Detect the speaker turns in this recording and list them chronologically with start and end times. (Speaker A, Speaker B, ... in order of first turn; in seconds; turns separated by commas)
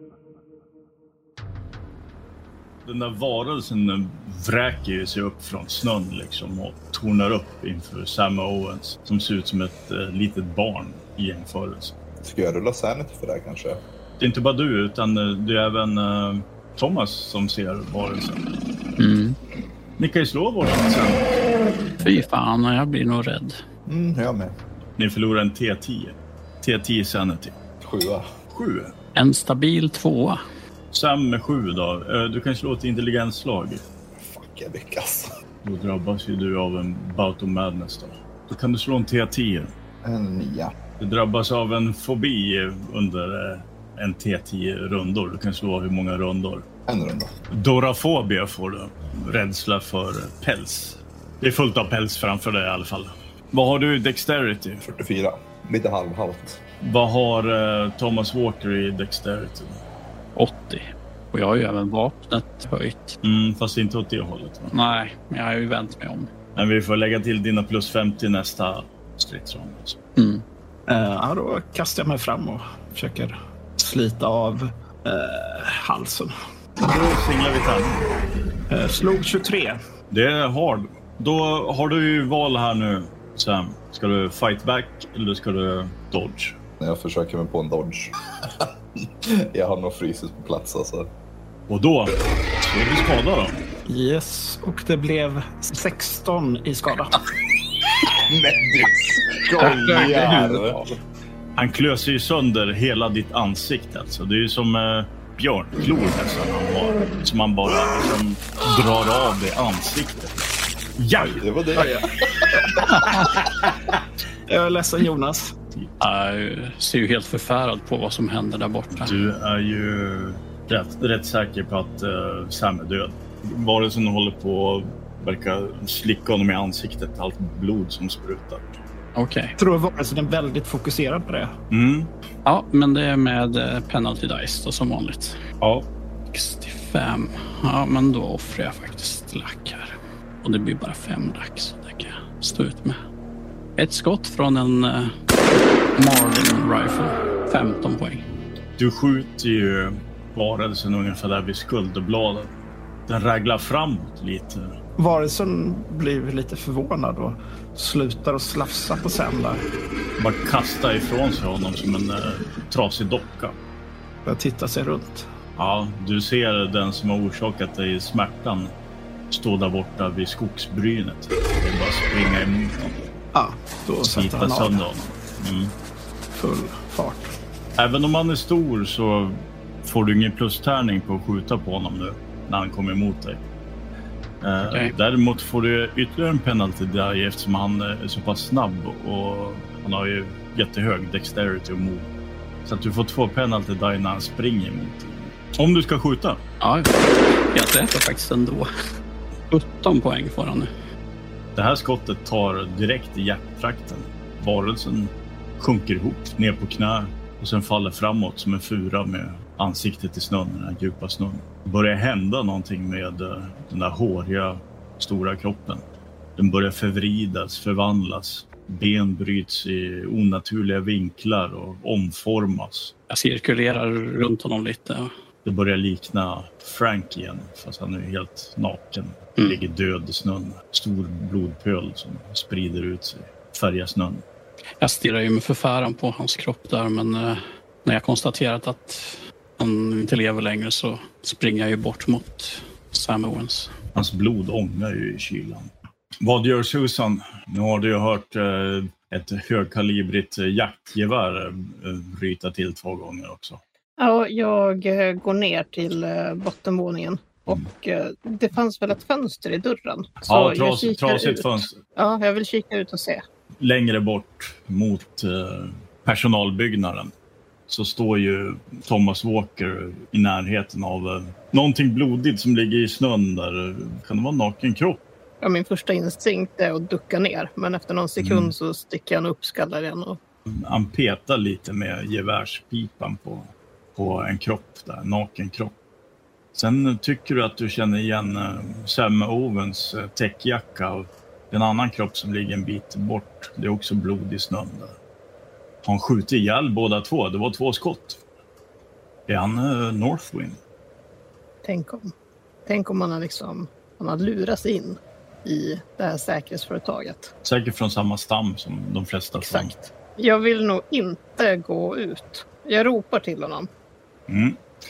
Speaker A: 2.8-11.9, Speaker B: 12.2-13.8, Speaker A: 14.2-18.4, Speaker C: 19.0-19.4, Speaker A: 20.0-21.4, Speaker C: 22.0-23.6, Speaker B: 23.9-24.5, Speaker A: 25.0-27.6, Speaker B: 27.8-28.3, Speaker A: 28.5-28.9, Speaker C: 29.1-30.4, Speaker A: 30.9-33.8, Speaker B: 34.1-35.3, Speaker A: 35.6-39.7, Speaker B: 40.0-40.7, Speaker A: 41.0-46.6, Speaker B: 46.9-47.3, Speaker A: 47.5-54.8, Speaker B: 54.8-56.6, Speaker A: 56.8-59.8, Speaker C: 60.4-63.2, Speaker A: 63.2-64.7, Speaker C: 64.7-66.3, Speaker A: 66.5-70.0, Speaker C: 70.2-70.4, Speaker D: 70.9-76.3, Speaker A: 76.8-78.0, Speaker D: 78.7-79.8, Speaker A: 80.1-86.6, Speaker B: 86.8-91.1, Speaker A: 91.7-93.6, Speaker D: 93.9-97.2, Speaker B: 98.2-100.8, Speaker A: 99.6-100.7, Speaker A: 101.5-110.3, Speaker A: 111.0-111.4, Speaker D: 111.2-113.0, Speaker B: 111.4-113.2, Speaker D: 114.5-115.5, Speaker C: 116.0-119.1, Speaker A: 119.0-128.8, Speaker C: 129.2-129.6, Speaker D: 129.6-131.5, Speaker A: 131.7-132.1, Speaker C: 132.4-135.4, Speaker C: 136.3-143.0, Speaker C: 143.8-145.1, Speaker C: 145.9-148.2, Speaker A: 148.8-152.5, Speaker A: 153.1-154.7, Speaker D: 155.0-159.6, Speaker A: 160.2-163.6, Speaker D: 164.2-165.3, Speaker A: 165.6-168.7, Speaker A: 169.3-173.1, Speaker D: 173.3-174.8, Speaker A: 174.0-175.7, Speaker D: 176.3-177.3, Speaker A: 177.8-183.4, Speaker A: 184.4-192.1, Speaker A: 192.6-196.4, Speaker C: 196.6-198.7, Speaker C: 199.5-200.7, Speaker A: 201.5-215.8, Speaker A: 216.4-222.9, Speaker C: 223.1-225.1, Speaker A: 225.4-234.2, Speaker C: 234.8-243.7, Speaker A: 243.9-245.7, Speaker A: 246.2-253.6, Speaker E: 254.0-263.2, Speaker A: 260.3-261.8, Speaker A: 263.6-267.1, Speaker A: 267.7-275.0, Speaker E: 275.4-280.2, Speaker A: 278.2-278.5, Speaker A: 280.5-285.7, Speaker A: 286.5-294.9, Speaker A: 295.8-298.2, Speaker A: 299.3-300.6, Speaker E: 301.6-302.1, Speaker E: 302.6-307.3, Speaker A: 307.4-309.7, Speaker E: 309.4-313.7, Speaker A: 314.3-314.6